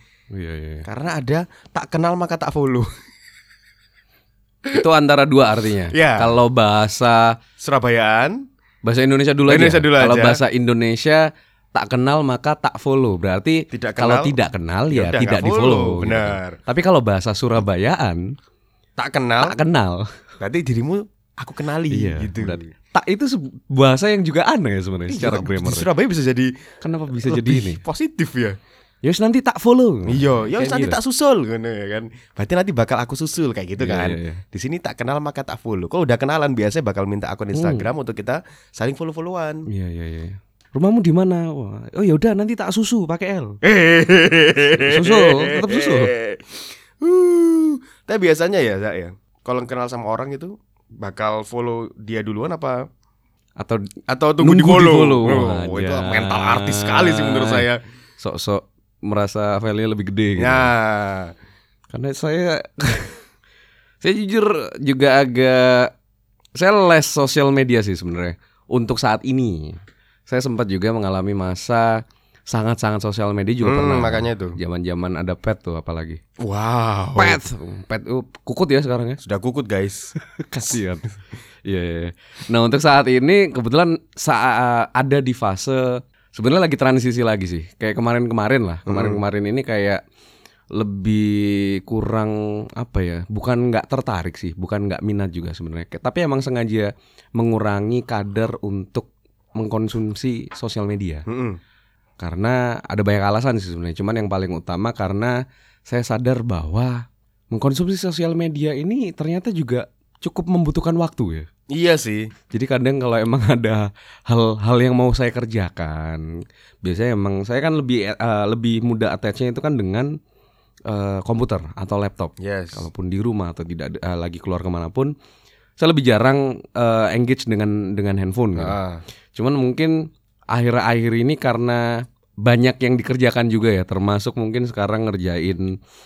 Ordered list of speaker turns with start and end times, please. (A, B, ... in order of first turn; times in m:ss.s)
0:00.3-0:00.9 A
0:00.9-0:02.9 B
0:04.7-0:07.4 A
0:05.9-0:06.4 B
0:07.6-0:08.4 B
0:08.8-0:18.3 A
0:09.5-0:10.4 B
0:13.7-0:14.3 B
0:14.9-0:16.6 B
0:19.0-0:19.6 B
0:19.4-0:20.1 A
0:20.4-0:22.7 B
0:21.9-0:25.9 A
0:25.1-0:26.5 B
0:26.8-0:27.8 A
0:27.2-0:28.6 B
0:29.0-0:31.0 A
0:30.1-0:39.7 B
0:33.8-0:34.4 A
0:37.5-0:37.9 A
0:39.7-0:43.6 A
0:43.6-0:52.8 B
0:44.8-0:46.1 A
0:54.1-0:57.8 B
0:54.4-0:57.7 A
0:58.2-1:00.7 A
1:00.4-1:01.3 B
1:01.9-1:03.2 A
1:04.0-1:05.9 A
1:06.6-1:16.2 A
1:13.6-1:14.6 B
1:16.4-1:17.4 B
1:17.2-1:19.2 A
1:19.2-1:20.1 B
1:20.2-1:30.0 A
1:28.9-1:29.2 B
1:30.7-1:41.2 A
1:41.3-1:41.6 B
1:42.2-1:51.5 A
1:51.7-1:52.3 B
1:52.5-1:56.3 A
1:56.8-2:00.2 A
2:00.9-2:05.1 A
2:02.4-2:02.8 B
2:05.8-2:08.8 A
2:08.6-2:09.0 B
2:09.4-2:15.8 A